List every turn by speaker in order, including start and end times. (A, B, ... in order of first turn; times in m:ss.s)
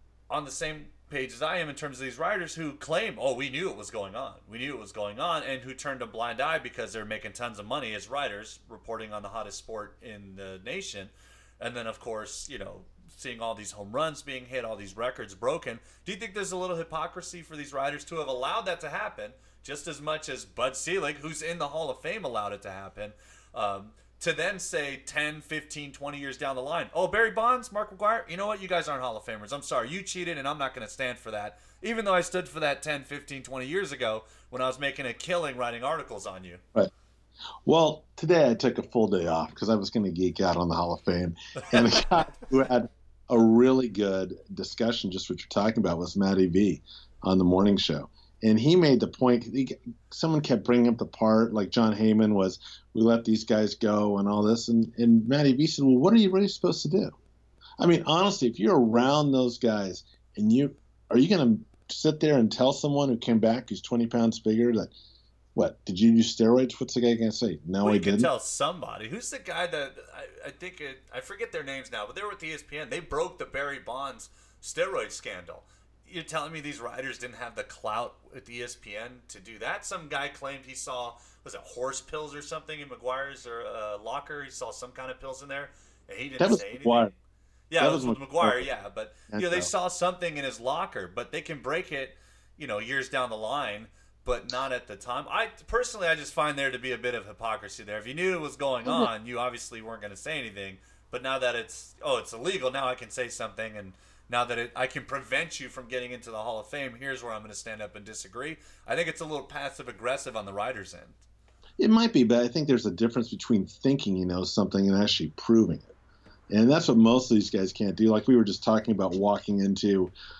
0:00.3-0:36.6 A
0:37.6-0:57.2 B
0:57.8-1:04.9 B
1:05.6-1:08.3 B
1:07.8-1:27.1 A
1:26.4-1:27.1 B
1:27.7-1:51.2 A
1:27.8-1:28.6 B
1:29.3-1:29.7 B
1:38.8-1:39.1 B
1:51.8-1:55.9 B
1:56.5-2:00.1 B